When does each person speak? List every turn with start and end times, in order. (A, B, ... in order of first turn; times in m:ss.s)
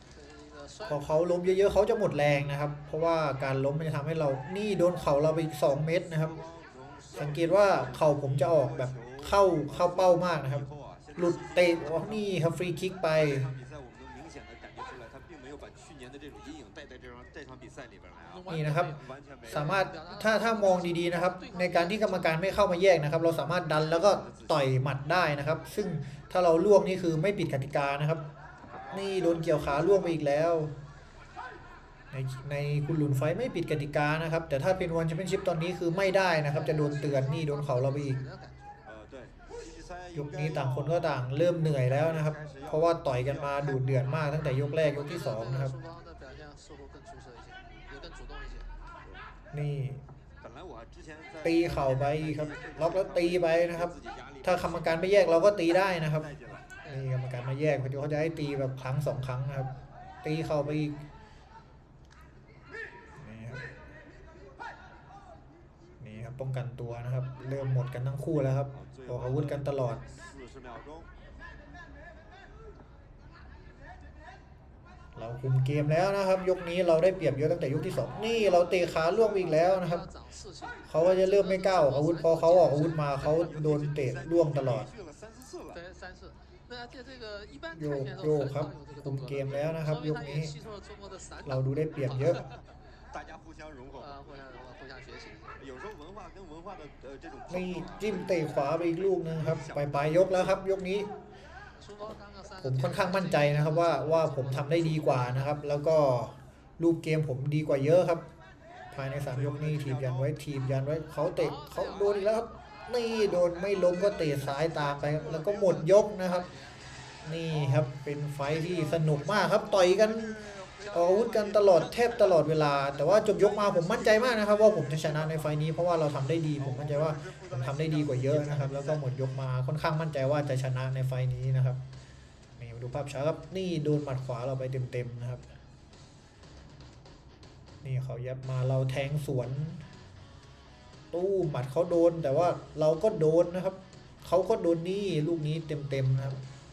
0:00.3-0:00.8 A
0:00.8-0:06.4 B
0:06.4-0:07.1 C
0:07.1-0:13.5 B
0:07.7-0:09.1 C
0:11.2-0:11.4 C
0:13.7-0:18.4 C
0:18.5-0:28.2 B
0:19.8-0:20.1 A
0:28.9-0:30.7 B
0:32.1-0:38.2 B
0:38.2-0:38.5 A
0:39.0-0:40.9 C
0:40.1-0:45.8 B
0:42.3-0:42.6 C
0:45.3-0:48.6 A
0:49.5-0:50.0 B
0:50.4-0:53.3 C
0:51.4-0:56.3 B
0:56.9-0:59.7 B
1:00.2-1:01.0 B
1:03.2-1:03.6 B
1:06.0-1:10.0 B
1:10.4-1:11.0 C
1:15.2-1:20.1 B
1:20.9-1:24.9 B
1:21.4-1:21.8 A
1:24.9-1:25.8 C
1:25.8-1:26.3 A
1:27.7-1:30.5 B
1:31.4-1:32.4 B
1:33.1-1:34.1 C
1:34.1-1:35.6 A
1:35.7-1:38.1 C
1:37.5-1:41.1 B
1:41.9-1:42.8 A
1:42.6-1:48.2 B
1:48.9-1:56.5 B
1:57.2-2:11.8 B
2:00.4-2:00.9 C
2:07.1-2:07.5 C
2:12.6-2:15.5 B
2:17.8-2:19.8 B
2:21.1-2:26.4 B